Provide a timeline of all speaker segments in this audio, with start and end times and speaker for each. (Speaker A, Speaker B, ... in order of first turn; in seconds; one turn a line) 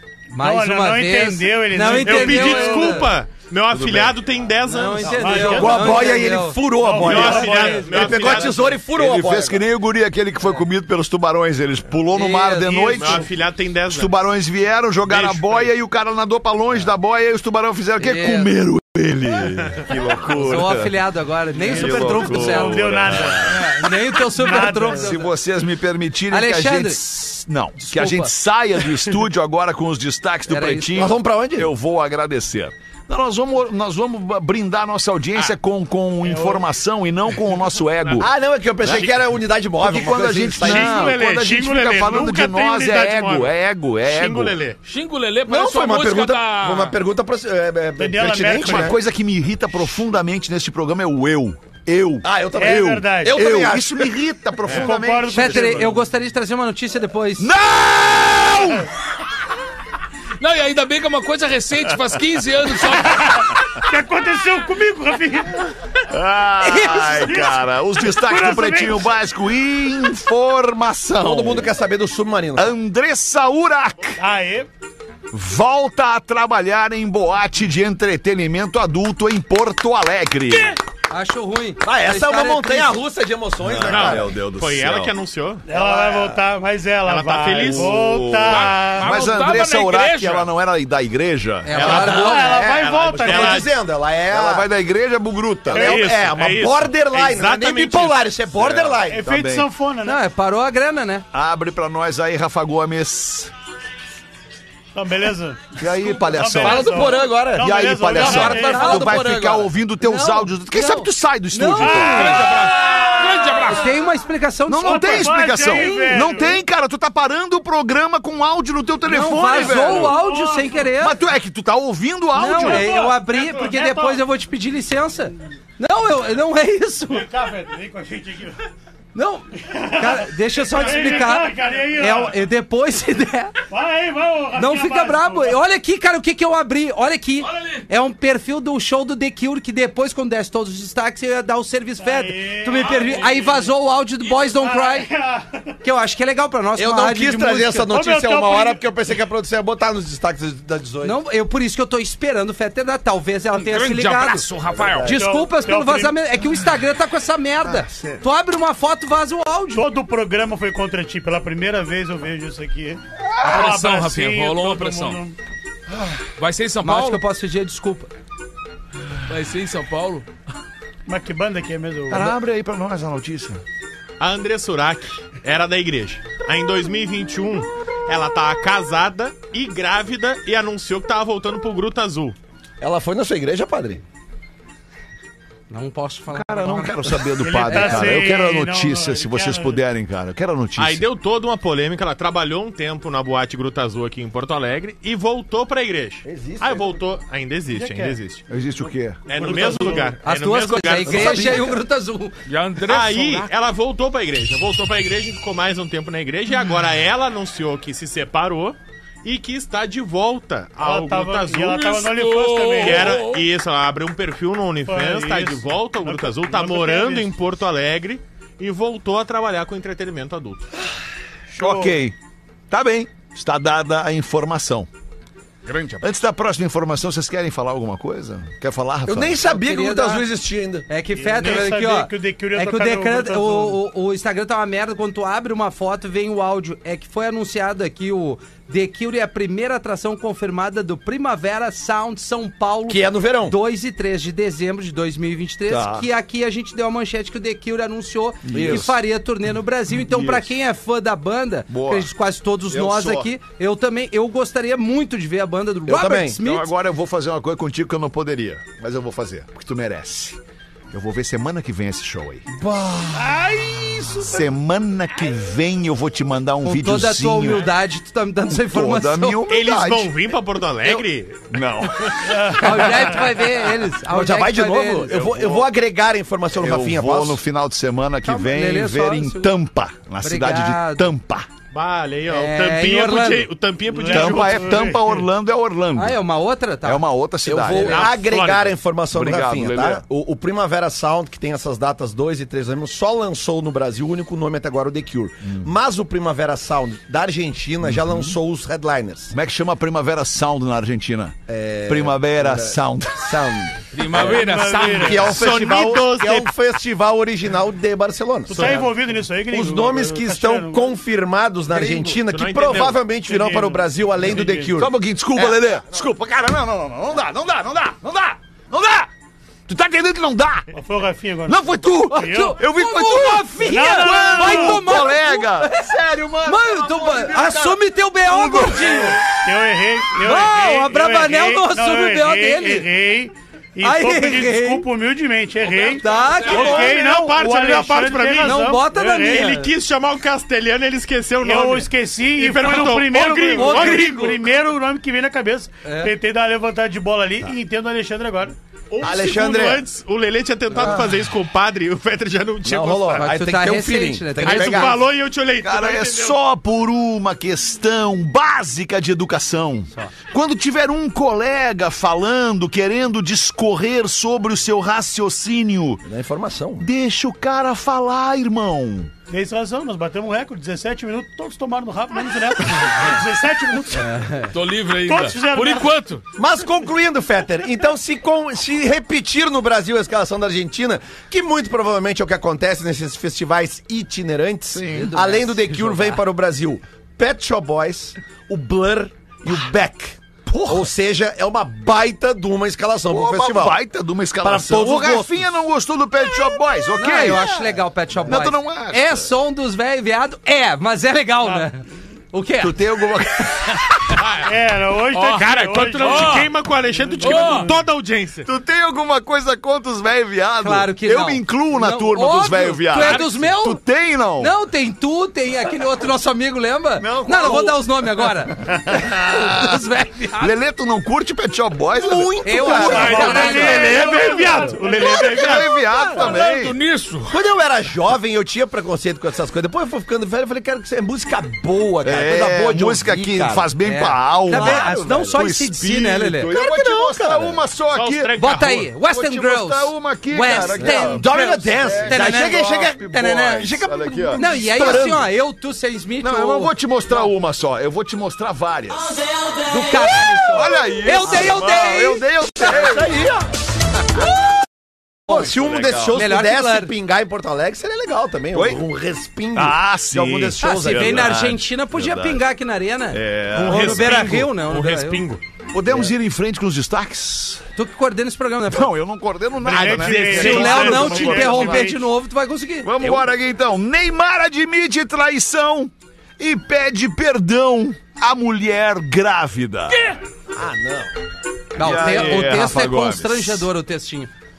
Speaker A: 0.3-3.1
Speaker B: 0.3-3.1
Speaker C: 1.8-5.7
Speaker D: 3.7-4.2
Speaker A: 4.7-8.4
Speaker B: 5.0-8.3
Speaker E: 5.4-9.6
Speaker C: 7.0-8.8
Speaker D: 8.9-13.3
Speaker A: 12.1-13.0
Speaker C: 12.7-14.1
Speaker D: 13.9-21.0
Speaker C: 15.1-15.7
Speaker A: 18.0-18.5
Speaker A: 20.4-25.3
Speaker B: 21.6-25.1
Speaker D: 21.6-23.7
Speaker D: 25.0-38.3
Speaker A: 26.3-27.0
Speaker A: 27.8-28.3
Speaker A: 30.5-31.1
Speaker E: 30.9-31.7
Speaker B: 36.2-36.6
Speaker E: 38.2-41.1
Speaker D: 38.8-39.1
Speaker D: 39.8-44.5
Speaker C: 40.6-43.5
Speaker C: 44.0-44.8
Speaker F: 44.9-47.0
Speaker E: 45.5-49.0
Speaker B: 48.0-48.9
Speaker D: 48.6-52.3
Speaker E: 52.2-54.1
Speaker B: 52.5-53.4
Speaker D: 53.3-55.8
Speaker B: 54.7-56.0
Speaker A: 55.3-57.5
Speaker D: 57.4-58.9
Speaker F: 60.4-63.5
Speaker B: 63.1-65.7
Speaker D: 66.1-71.7
Speaker A: 66.6-67.5
Speaker B: 67.2-67.6
Speaker B: 68.1-69.1
Speaker E: 71.2-72.7
Speaker D: 72.5-74.2
Speaker B: 74.2-74.7
Speaker D: 75.3-80.8
Speaker A: 81.1-83.0
Speaker E: 81.8-84.3
Speaker D: 83.6-85.1
Speaker C: 83.8-85.6
Speaker B: 85.7-89.5
Speaker E: 85.7-86.4
Speaker C: 87.0-87.9
Speaker D: 87.6-92.1
Speaker F: 88.5-90.5
Speaker A: 91.6-92.6
Speaker C: 91.7-93.7
Speaker E: 91.9-94.7
Speaker B: 91.9-93.7
Speaker D: 94.3-96.1
Speaker E: 95.7-99.3
Speaker B: 95.7-96.2
Speaker C: 95.8-98.2
Speaker D: 98.5-99.7
Speaker B: 99.1-100.2
Speaker A: 100.0-101.2
Speaker D: 101.3-103.5
Speaker B: 104.9-109.0
Speaker D: 105.8-112.7
Speaker E: 106.6-109.7
Speaker A: 108.2-112.6
Speaker B: 111.8-112.5
Speaker F: 112.1-114.0
Speaker A: 113.5-116.4
Speaker D: 114.7-120.2
Speaker B: 114.8-116.6
Speaker A: 119.0-121.2
Speaker B: 119.4-120.9
Speaker D: 121.0-122.9
Speaker A: 122.3-127.3
Speaker B: 122.4-124.2
Speaker B: 127.1-128.6
Speaker A: 129.1-133.6
Speaker B: 129.6-132.4
Speaker B: 133.7-135.6
Speaker A: 134.5-145.1
Speaker F: 137.4-137.8
Speaker B: 142.0-143.7
Speaker F: 142.8-143.5
Speaker B: 144.4-145.7
Speaker A: 145.8-147.7
Speaker E: 146.8-151.2
Speaker B: 147.6-148.8
Speaker A: 151.0-154.5
Speaker F: 153.6-155.2
Speaker E: 154.7-155.2
Speaker A: 155.0-159.8
Speaker B: 155.1-156.2
Speaker D: 157.6-158.2
Speaker B: 159.7-165.4
Speaker F: 163.4-165.2
Speaker F: 166.4-167.2
Speaker A: 166.8-168.1
Speaker F: 169.3-170.2
Speaker B: 171.1-172.3
Speaker D: 172.1-173.6
Speaker C: 174.2-182.3
Speaker E: 182.8-184.0
Speaker A: 185.7-188.2
Speaker D: 186.3-191.0
Speaker B: 187.4-189.8
Speaker C: 190.8-198.4
Speaker E: 196.2-196.9
Speaker B: 197.7-198.2
Speaker D: 198.5-199.2
Speaker C: 199.3-201.7
Speaker B: 199.3-200.2
Speaker A: 200.2-202.4
Speaker E: 201.1-201.8
Speaker F: 202.5-203.5
Speaker C: 202.8-211.8
Speaker B: 210.8-213.2
Speaker F: 211.6-213.4
Speaker C: 212.8-220.7
Speaker B: 214.9-217.3
Speaker B: 221.5-222.0
Speaker D: 221.6-222.1
Speaker D: 222.7-224.9
Speaker F: 225.7-226.0
Speaker D: 226.0-229.4
Speaker E: 229.1-230.9
Speaker A: 229.4-230.2
Speaker A: 230.9-256.7
Speaker B: 231.1-233.8
Speaker E: 242.9-243.6
Speaker D: 245.7-246.1
Speaker D: 248.4-248.9
Speaker E: 248.5-248.9
Speaker D: 250.1-250.4
Speaker D: 251.7-252.1
Speaker D: 252.7-253.3
Speaker E: 255.9-256.4
Speaker D: 256.3-262.5
Speaker E: 262.5-263.4
Speaker B: 263.2-264.2
Speaker D: 264.2-267.7
Speaker A: 266.6-269.4
Speaker D: 268.5-270.1
Speaker C: 269.5-272.3
Speaker D: 271.5-272.9
Speaker B: 272.2-273.2
Speaker A: 272.5-275.5
Speaker E: 274.1-277.4
Speaker D: 276.5-281.5
Speaker A: 278.2-279.5
Speaker A: 280.2-281.1
Speaker C: 281.7-284.9
Speaker A: 282.3-283.5
Speaker B: 283.9-285.2
Speaker D: 284.1-286.2
Speaker A: 285.9-287.0
Speaker D: 286.8-288.2
Speaker E: 287.4-299.3
Speaker C: 287.7-288.8
Speaker D: 289.1-290.0
Speaker D: 297.8-298.4
Speaker D: 299.3-303.5
Speaker E: 301.5-308.9
Speaker F: 303.9-305.4
Speaker B: 304.3-305.3
Speaker C: 305.1-306.5
Speaker B: 308.5-311.0
Speaker C: 308.5-308.9
Speaker E: 309.5-315.6
Speaker C: 311.7-313.0
Speaker B: 313.2-314.7
Speaker D: 314.8-319.1
Speaker D: 319.7-320.7
Speaker B: 320.7-322.6
Speaker D: 321.4-329.5
Speaker A: 322.1-325.9
Speaker B: 323.6-324.9
Speaker A: 326.4-329.2
Speaker B: 329.2-339.6
Speaker A: 330.2-332.9
Speaker A: 333.8-334.9
Speaker C: 335.7-344.3
Speaker A: 336.0-336.9
Speaker A: 338.4-339.7
Speaker B: 341.4-348.5
Speaker A: 343.4-344.4
Speaker A: 345.8-346.1
Speaker C: 348.9-353.3
Speaker E: 349.0-349.8
Speaker E: 350.8-351.1
Speaker E: 352.6-355.0
Speaker A: 353.1-354.9
Speaker C: 354.4-356.4
Speaker D: 355.6-366.0
Speaker E: 366.0-366.9
Speaker D: 366.8-369.1
Speaker B: 369.3-374.2
Speaker A: 374.0-374.5
Speaker F: 374.5-376.2
Speaker B: 375.0-375.9
Speaker E: 376.4-393.8
Speaker D: 384.7-385.1
Speaker A: 384.9-386.2
Speaker D: 390.5-390.9
Speaker D: 393.1-397.5
Speaker E: 394.4-395.4
Speaker A: 397.0-403.0
Speaker D: 398.1-399.3
Speaker B: 401.4-401.7
Speaker D: 402.6-403.8
Speaker C: 404.1-404.5
Speaker B: 404.4-407.7
Speaker F: 405.1-406.5
Speaker C: 405.3-408.5
Speaker F: 407.2-407.7
Speaker D: 408.4-414.5
Speaker A: 410.6-413.8
Speaker C: 413.0-413.3
Speaker A: 414.4-420.5
Speaker D: 417.0-419.8
Speaker D: 420.4-424.2
Speaker E: 421.9-424.5
Speaker A: 422.4-424.2
Speaker B: 422.7-425.7
Speaker F: 423.8-424.8
Speaker D: 424.8-426.8
Speaker E: 425.5-426.3
Speaker F: 426.0-427.3
Speaker E: 427.3-433.7
Speaker D: 432.0-438.3
Speaker A: 433.8-436.5
Speaker E: 434.5-435.5
Speaker E: 436.5-437.6
Speaker C: 437.9-438.9
Speaker A: 438.4-442.6
Speaker D: 438.9-441.3
Speaker E: 440.8-445.3
Speaker D: 441.8-445.2
Speaker A: 444.3-446.7
Speaker D: 446.2-449.2
Speaker A: 449.6-452.2
Speaker D: 450.0-453.1
Speaker E: 452.6-453.5
Speaker E: 455.3-461.3
Speaker D: 455.3-456.2
Speaker A: 456.1-456.9
Speaker D: 458.5-458.8
Speaker D: 459.5-462.4
Speaker A: 460.6-465.2
Speaker D: 463.1-464.4
Speaker C: 463.5-465.4
Speaker D: 465.7-467.6
Speaker A: 467.8-468.9
Speaker D: 468.7-471.9
Speaker C: 469.6-471.2
Speaker B: 469.7-472.1
Speaker A: 470.3-473.2
Speaker D: 472.8-480.0
Speaker F: 479.9-480.2
Speaker E: 480.5-481.1
Speaker D: 481.8-483.7
Speaker A: 481.8-484.3